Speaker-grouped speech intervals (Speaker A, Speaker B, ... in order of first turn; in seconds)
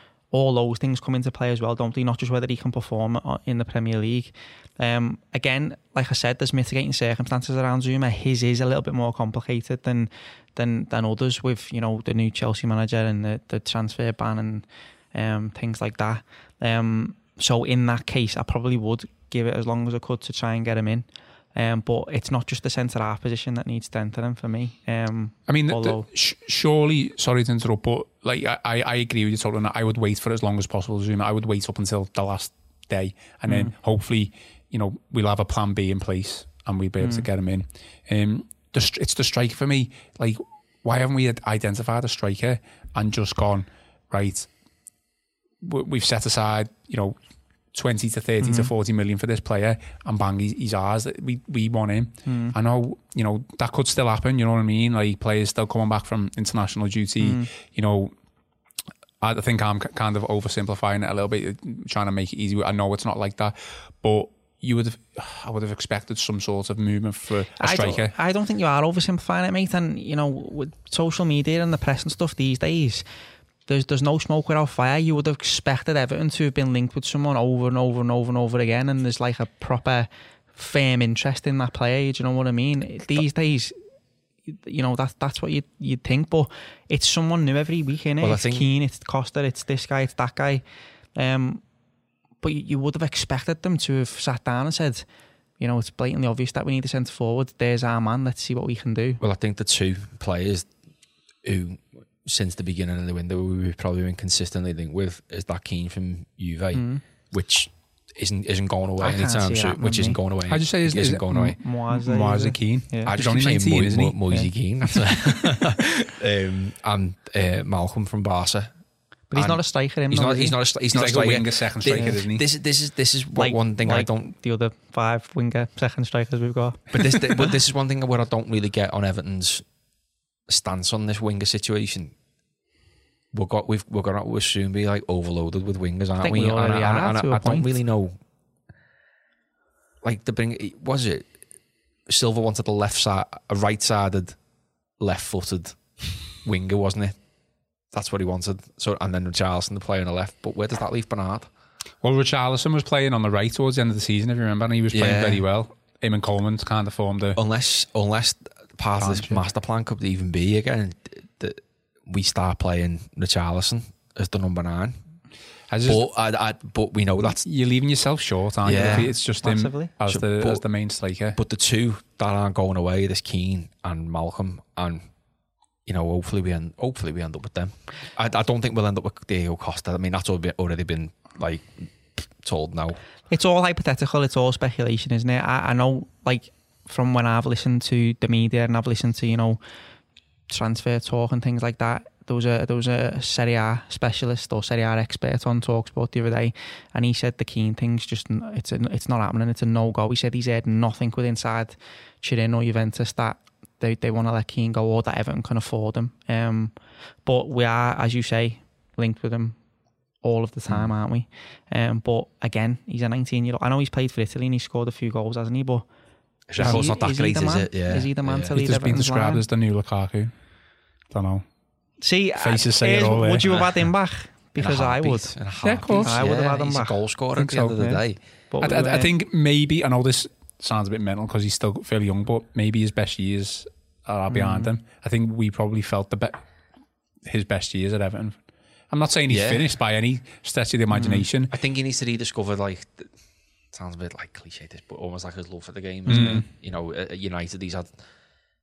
Speaker A: 0.3-26.1, 33.5-33.7, 37.0-37.3, 48.4-48.7, 52.3-52.5, 57.2-57.5, 67.6-73.0, 73.7-83.8, 84.5-90.6, 91.2-91.6, 92.4-95.1, 95.6-99.2, 106.7-107.0, 109.0-110.2, 111.6-113.1, 119.3-120.6, 123.3-127.5, 136.2-137.7, 168.8-169.9, 183.3-189.6, 190.5-206.7, 207.2-209.6, 210.2-215.9, 216.6-219.4, 222.0-225.3, 226.0-227.0, 227.8-229.1, 234.3-234.7, 240.9-241.2, 246.1-246.4
Speaker B: 25.5-44.5, 45.6-47.2, 47.7-58.1, 59.2-68.1, 110.5-114.5, 120.9-122.5, 152.0-157.4, 159.0-159.4, 165.7-166.0, 167.4-171.4, 216.6-216.8, 218.5-220.3, 221.1-221.4, 222.4-223.9, 225.6-226.2, 227.4-227.8, 228.6-236.4, 237.2-241.5, 246.1-246.4
Speaker C: 88.2-88.7, 99.2-100.7, 101.4-111.6, 113.1-118.7, 119.3-124.3, 126.9-129.7, 130.5-132.2, 133.3-138.2, 140.0-141.3, 142.1-144.4, 145.0-145.8, 146.4-147.2, 147.9-151.5, 154.9-155.4, 157.4-165.0, 165.8-167.4, 168.6-169.1, 170.1-170.6, 171.3-175.0, 175.9-183.0, 216.5-218.6, 224.6-228.2, 239.3-239.7, 241.5-243.1, 243.7-247.9